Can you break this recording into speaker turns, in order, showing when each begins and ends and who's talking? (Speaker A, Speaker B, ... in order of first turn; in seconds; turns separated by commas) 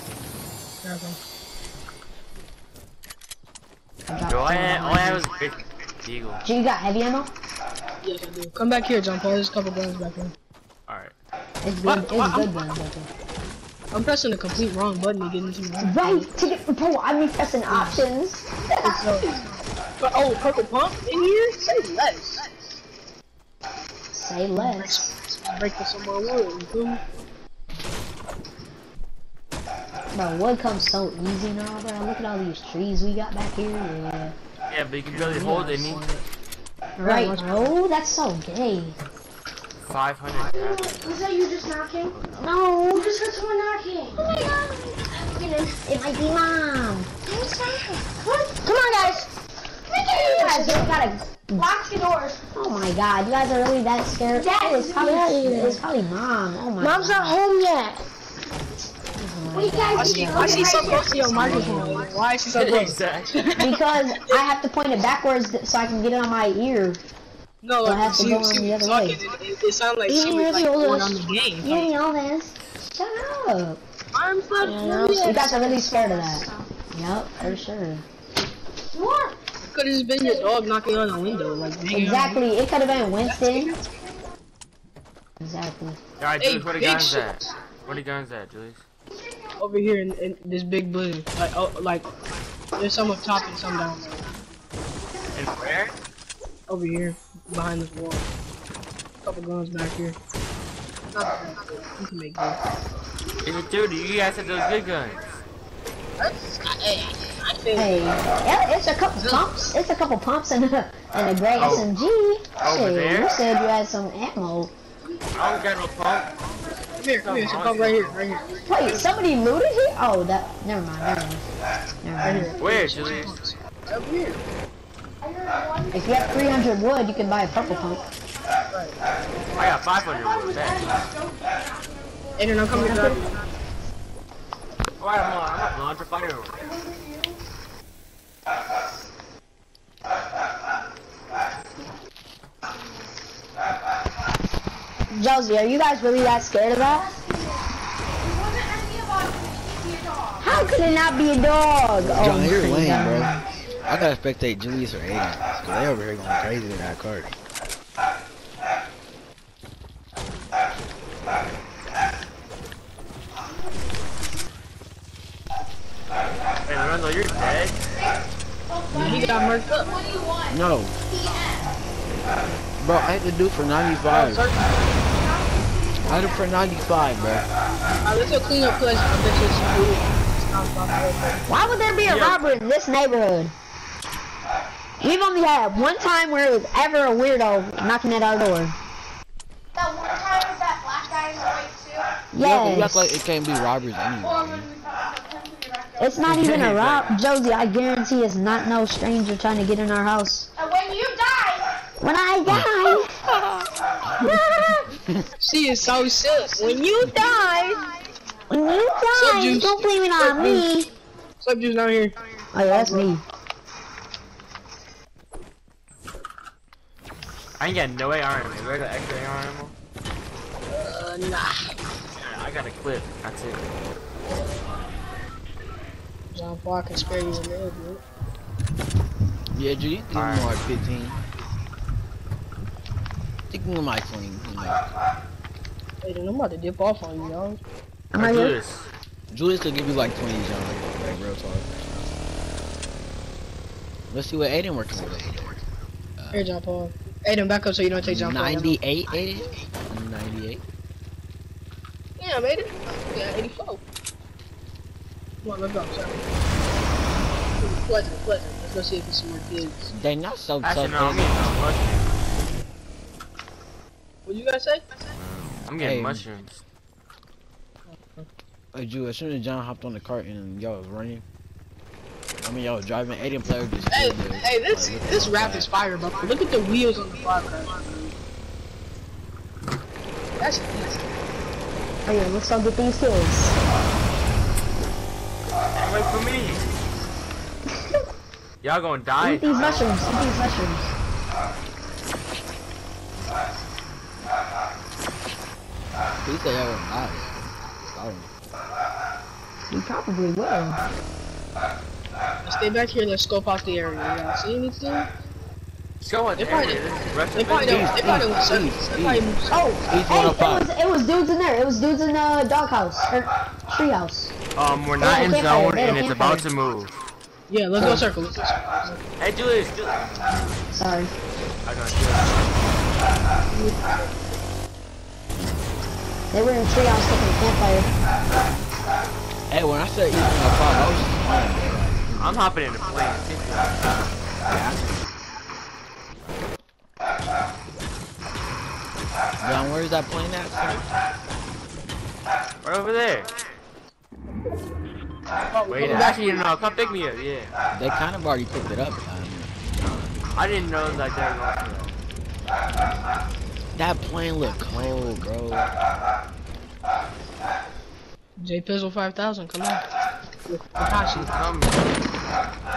Speaker A: 0.8-1.2, Speaker B: 4.1-5.3, Speaker C: 4.2-6.4, Speaker B: 6.4-7.3, Speaker A: 8.0-10.3, Speaker C: 10.9-11.1, Speaker B: 11.6-13.1, Speaker A: 11.8-12.5, Speaker A: 13.9-16.3, Speaker B: 15.8-18.8, Speaker A: 17.7-18.0, Speaker A: 18.7-19.4, Speaker A: 20.0-22.4, Speaker B: 24.1-25.1, Speaker A: 24.6-27.0, Speaker B: 30.1-34.4, Speaker C: 34.7-36.0, Speaker B: 35.1-36.2, Speaker B: 37.0-39.0, Speaker A: 37.0-37.7, Speaker C: 39.8-41.2, Speaker D: 40.4-42.1, Speaker C: 42.1-42.5, Speaker B: 42.3-43.2, Speaker D: 42.9-45.8, Speaker B: 44.2-44.9, Speaker B: 45.8-47.1, Speaker D: 47.3-49.2, Speaker D: 49.9-51.0, Speaker B: 50.1-51.7, Speaker D: 51.5-52.5, Speaker B: 52.5-57.4, Speaker D: 54.3-55.8, Speaker D: 56.8-58.0, Speaker B: 59.2-62.1, Speaker D: 59.5-62.2, Speaker A: 60.0-63.8, Speaker C: 62.5-63.4, Speaker B: 63.5-67.0, Speaker A: 67.6-71.9, Speaker B: 67.8-69.2, Speaker D: 70.1-71.2, Speaker B: 71.6-73.8, Speaker A: 74.1-75.6, Speaker D: 74.6-76.6, Speaker B: 75.1-78.0, Speaker D: 78.9-79.3, Speaker A: 79.6-82.4, Speaker B: 81.9-83.7, Speaker A: 83.2-83.8, Speaker B: 85.4-86.0, Speaker C: 86.2-88.8, Speaker A: 86.4-87.4, Speaker A: 89.6-92.1, Speaker A: 92.8-94.3, Speaker C: 95.3-95.9, Speaker A: 96.7-98.2, Speaker A: 99.2-100.2, Speaker A: 101.1-102.6, Speaker C: 103.4-105.2, Speaker A: 106.2-108.1, Speaker B: 107.7-114.7, Speaker A: 109.2-109.6, Speaker C: 111.6-111.9, Speaker C: 112.6-113.3, Speaker C: 115.3-116.3, Speaker D: 116.5-117.0, Speaker A: 117.0-119.0, Speaker C: 117.2-118.2, Speaker D: 118.5-118.8, Speaker B: 118.6-121.4, Speaker B: 122.0-122.6, Speaker A: 122.2-124.4, Speaker C: 122.6-123.3, Speaker D: 125.3-126.6, Speaker B: 125.9-128.0, Speaker D: 127.5-127.9, Speaker C: 129.6-131.1, Speaker D: 130.9-132.2, Speaker A: 132.4-133.3, Speaker B: 132.7-133.2, Speaker C: 135.0-136.7, Speaker D: 136.8-137.3, Speaker B: 145.1-147.2, Speaker D: 146.9-147.4, Speaker D: 148.3-150.7, Speaker B: 150.4-153.4, Speaker E: 152.0-153.3, Speaker E: 153.8-157.3, Speaker C: 166.7-167.8, Speaker D: 168.7-170.6, Speaker E: 168.9-169.2, Speaker A: 168.9-169.9, Speaker E: 170.5-170.9, Speaker D: 171.1-171.6, Speaker E: 172.8-174.5, Speaker A: 174.1-174.9, Speaker D: 175.1-176.5, Speaker E: 176.0-177.5, Speaker A: 178.0-181.8, Speaker B: 181.5-183.5, Speaker C: 182.1-182.5, Speaker B: 185.0-188.8, Speaker D: 189.7-192.2, Speaker B: 192.3-193.2, Speaker E: 192.4-194.7, Speaker D: 194.2-196.2, Speaker B: 196.0-200.5, Speaker C: 196.3-197.1, Speaker D: 200.6-201.7, Speaker B: 202.0-203.1, Speaker E: 202.5-203.7, Speaker B: 204.2-204.9, Speaker A: 205.4-207.7, Speaker D: 206.9-207.2, Speaker B: 208.5-210.9, Speaker A: 209.1-210.7, Speaker A: 211.4-212.1, Speaker B: 212.5-213.2, Speaker A: 212.6-213.1, Speaker C: 217.6-219.7, Speaker A: 220.7-221.8, Speaker C: 222.2-223.6, Speaker A: 226.3-228.0, Speaker E: 229.5-231.2, Speaker C: 230.1-230.6, Speaker E: 233.5-234.8, Speaker A: 236.0-237.6, Speaker B: 238.1-238.6, Speaker C: 238.1-238.9, Speaker E: 239.3-242.1, Speaker E: 244.1-245.6, Speaker E: 246.2-246.5, Speaker A: 246.3-248.8, Speaker E: 248.0-250.6, Speaker A: 252.2-253.8, Speaker A: 255.4-256.3, Speaker A: 257.6-259.9, Speaker E: 259.9-261.4, Speaker C: 260.6-262.1, Speaker A: 264.2-264.8, Speaker C: 265.2-266.6, Speaker E: 265.8-266.2, Speaker A: 267.9-268.2, Speaker E: 268.7-271.2, Speaker E: 272.4-275.7, Speaker A: 273.9-278.1, Speaker A: 280.4-281.1, Speaker B: 282.0-283.6, Speaker C: 285.7-286.6, Speaker C: 288.6-289.9, Speaker B: 289.2-290.8, Speaker E: 296.2-298.3, Speaker B: 299.7-300.8, Speaker A: 302.4-305.1, Speaker C: 306.0-308.1, Speaker A: 306.4-309.5, Speaker E: 307.6-309.3, Speaker B: 309.5-314.3, Speaker E: 309.9-310.6, Speaker C: 314.6-316.9, Speaker B: 315.0-316.5, Speaker A: 317.5-319.0, Speaker B: 317.8-318.0, Speaker C: 319.2-320.5, Speaker B: 320.7-321.1, Speaker C: 321.6-322.7, Speaker A: 323.5-324.1, Speaker B: 326.3-327.9, Speaker E: 329.5-332.4, Speaker C: 332.2-333.9, Speaker E: 334.4-335.1, Speaker E: 336.2-336.6, Speaker E: 339.4-340.9, Speaker C: 342.6-343.3, Speaker A: 345.5-346.5, Speaker C: 345.7-347.5, Speaker E: 347.7-350.4, Speaker C: 350.3-351.9, Speaker E: 353.7-355.7, Speaker A: 358.4-359.8, Speaker A: 360.4-361.3, Speaker C: 361.1-361.9